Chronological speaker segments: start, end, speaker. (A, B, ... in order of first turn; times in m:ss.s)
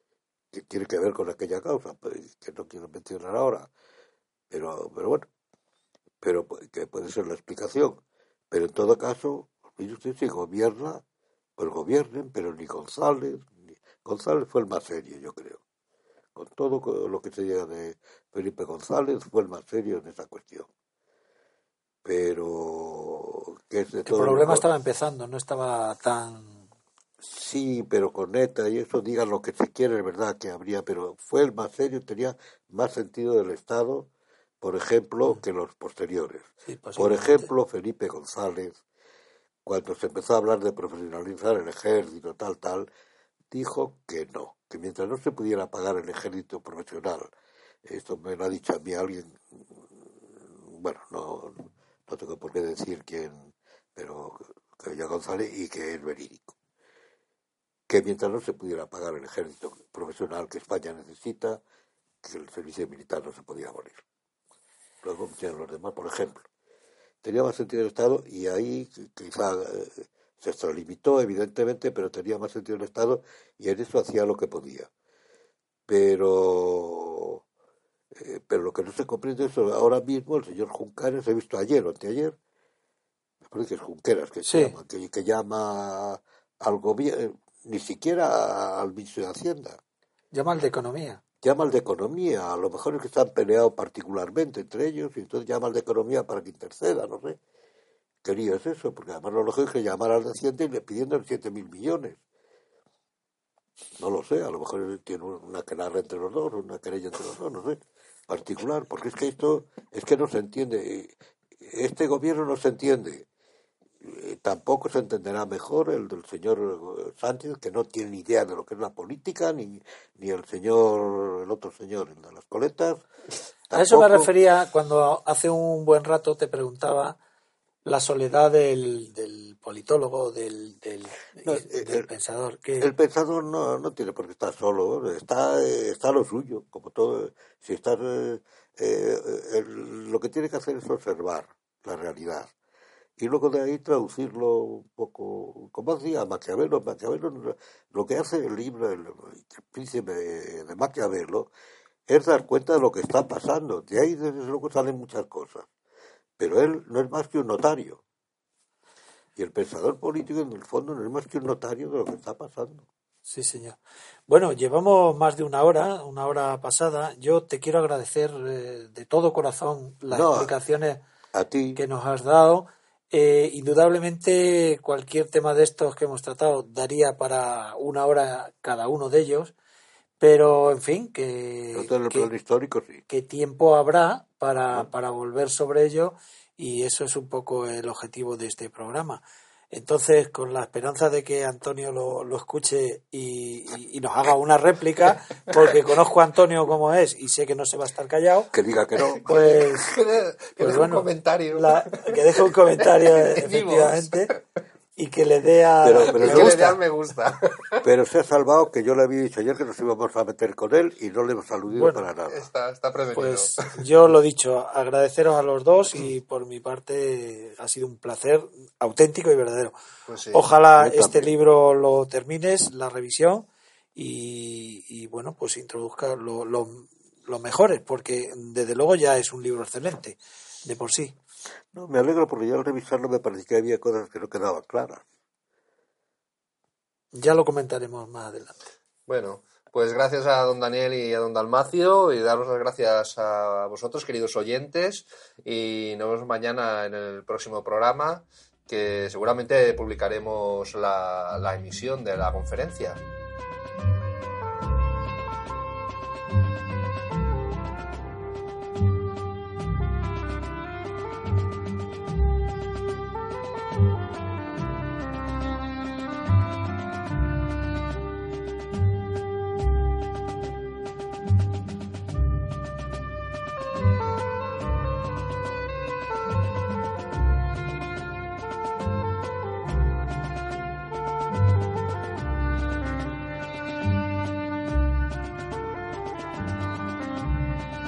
0:00.5-0:03.7 A
0:04.5-0:05.2 A
0:06.2-0:11.0 A
0:11.6-0:15.6 A
0:16.3-0:20.7 A
0:22.0-0:24.6 A
0:24.0-0:26.6 B
0:27.2-0:34.1 A
0:34.6-0:38.8 A
0:36.6-0:37.5 B
0:39.6-0:42.9 A
0:43.5-0:47.3 A
0:47.8-0:56.5 A
0:57.9-1:01.6 A
1:02.2-1:04.0 A
1:05.0-1:06.4 A
1:07.2-1:14.9 A
1:15.9-1:17.4 A
1:18.1-1:22.4 A
1:23.4-1:29.8 A
1:24.4-1:24.7 B
1:30.3-1:31.2 B
1:31.4-1:37.4 A
1:38.2-1:42.2 A
1:44.0-1:53.2 A
1:54.0-2:03.1 A
2:03.7-2:04.3 A
2:03.7-2:07.2 B
2:07.8-2:12.9 B
2:11.4-2:12.1 A
2:12.8-2:22.5 A
2:23.2-2:31.5 A
2:32.1-2:35.7 A
2:36.4-2:38.0 A
2:39.4-2:42.8 A
2:43.3-2:51.0 B
2:50.1-2:50.5 A
2:51.3-2:51.8 A
2:51.7-2:59.5 B
3:00.2-3:02.3 B
3:01.7-3:03.0 A
3:03.1-3:18.5 B
3:18.5-3:19.2 A
3:19.0-3:24.4 C
3:19.2-3:19.9 B
3:20.6-3:24.3 B
3:25.0-3:26.8 B
3:25.8-3:26.8 A
3:26.0-3:27.8 C
3:27.8-3:32.5 A
3:31.7-3:32.0 B
3:32.3-3:33.8 C
3:33.1-3:39.8 B
3:40.1-3:40.4 C
3:40.3-3:51.1 B
3:40.8-3:41.3 A
3:51.7-3:55.0 A
3:57.1-3:58.5 B
3:59.1-4:13.0 C